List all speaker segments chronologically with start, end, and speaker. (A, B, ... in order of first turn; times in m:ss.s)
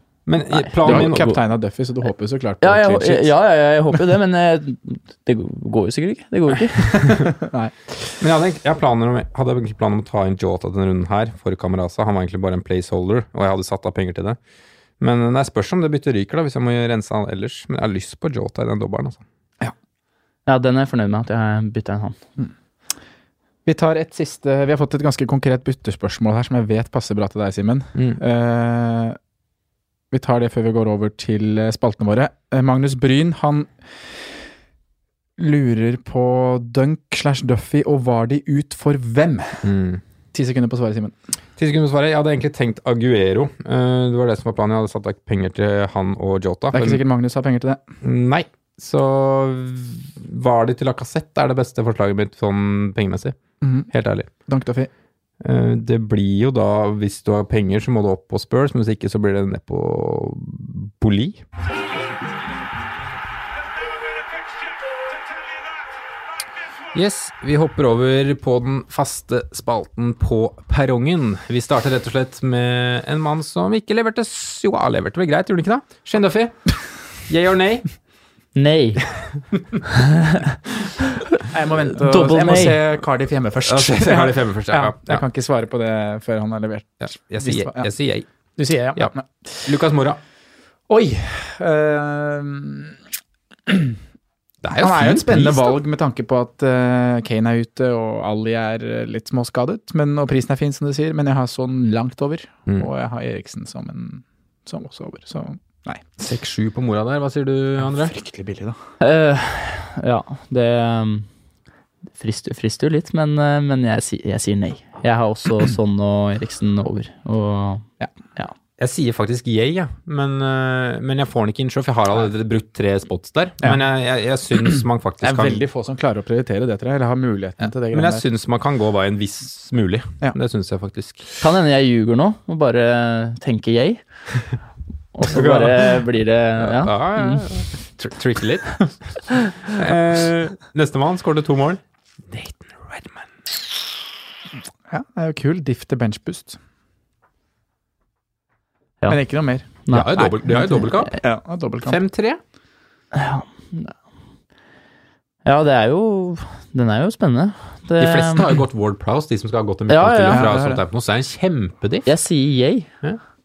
0:00.3-0:01.4 A
0:00.8-0:03.3 B
0:02.6-0:07.1 C
0:06.9-0:07.9 B
0:08.2-0:14.4 A
0:15.0-0:19.2 A
0:20.5-0:22.2 C
0:23.6-0:29.2 B
0:30.1-0:33.7 B
0:35.4-0:39.6 B
0:39.6-0:40.0 A
0:40.3-0:41.2 B
0:41.6-0:47.0 A
0:46.7-0:47.8 B
0:48.0-0:53.4 A
0:53.6-0:53.9 B
0:53.9-0:54.3 A
0:54.5-0:54.9 B
0:55.4-1:01.4 A
1:06.9-1:16.8 A
1:17.3-1:17.9 A
1:18.6-1:19.0 C
1:20.1-1:20.5 C
1:21.5-1:27.9 B
1:22.1-1:22.8 C
1:23.6-1:25.2 A
1:27.0-1:28.3 A
1:28.6-1:29.7 B
1:29.6-1:30.2 A
1:30.9-1:33.0 B
1:33.7-1:34.0 B
1:34.6-1:35.8 A
1:34.8-1:46.0 B
1:46.2-1:48.1 A
1:47.8-1:48.8 B
1:49.0-1:51.3 C
1:52.2-1:57.8 C
1:58.8-2:05.6 A
2:05.2-2:08.2 B
2:07.9-2:11.2 A
2:11.4-2:14.0 C
2:15.2-2:17.4 C
2:15.3-2:16.0 A
2:16.6-2:18.9 A
2:19.6-2:21.8 A
2:22.3-2:23.2 A
2:24.9-2:26.6 B
2:29.1-2:30.3 B
2:29.8-2:30.3 C
2:29.9-2:31.2 A
2:31.1-2:32.0 B
2:31.8-2:32.4 A
2:33.1-2:33.9 C
2:35.4-2:38.5 C
2:38.0-2:42.1 A
2:39.9-2:40.4 C
2:40.3-2:40.8 B
2:42.1-2:42.9 C